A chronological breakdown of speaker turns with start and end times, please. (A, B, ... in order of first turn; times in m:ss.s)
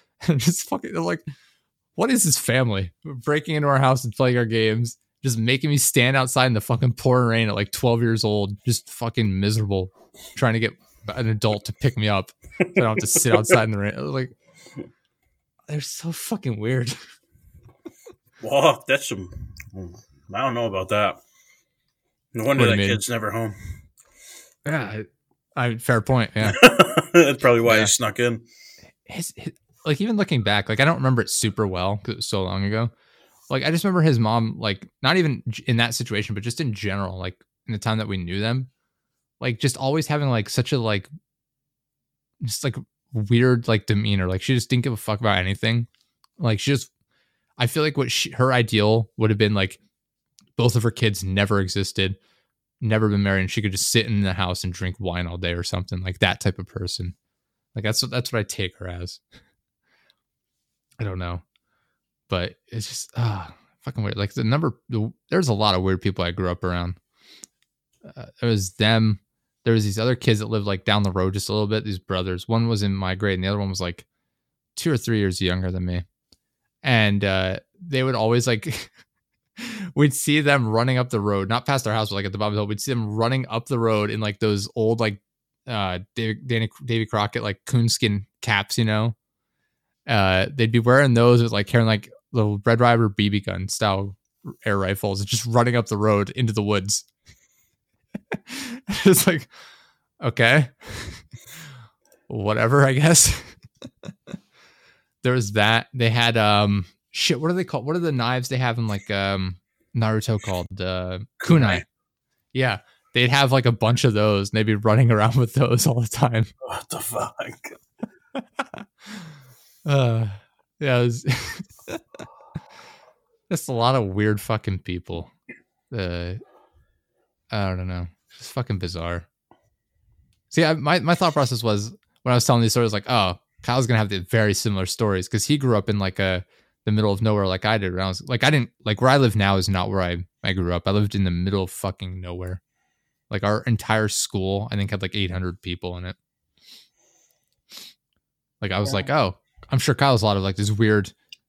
0:00.2-0:01.2 A
0:02.0-0:14.4 A
0:13.0-0:13.6 B
0:15.7-0:17.0 A
0:18.4-0:21.2 B
0:22.3-0:23.6 B
0:22.6-0:23.0 A
0:24.6-0:26.6 A
0:26.4-0:28.4 B
0:27.6-0:27.9 A
0:29.1-0:32.9 A
0:33.5-0:38.7 A
0:39.4-0:41.1 A
0:42.4-0:45.9 A
0:46.4-0:46.9 A
0:47.6-0:49.8 A
0:50.6-0:52.2 A
0:52.8-0:57.2 A
0:57.8-0:59.2 A
1:01.0-1:01.4 A
1:02.3-1:07.0 A
1:08.0-1:14.1 A
1:14.8-1:16.0 A
1:16.8-1:18.9 A
1:19.6-1:29.2 A
1:30.1-1:37.1 A
1:38.3-1:39.5 A
1:40.2-1:41.3 A
1:42.3-1:43.6 A
1:45.2-1:51.8 A
1:51.4-1:51.8 B
1:52.5-1:56.5 A
1:56.6-1:57.8 B
1:58.6-1:59.3 A
1:59.8-2:02.0 A
2:03.5-2:05.3 A
2:05.9-2:06.4 A
2:07.5-2:09.3 A
2:10.5-2:22.6 A
2:23.3-2:26.2 A
2:28.6-2:31.1 A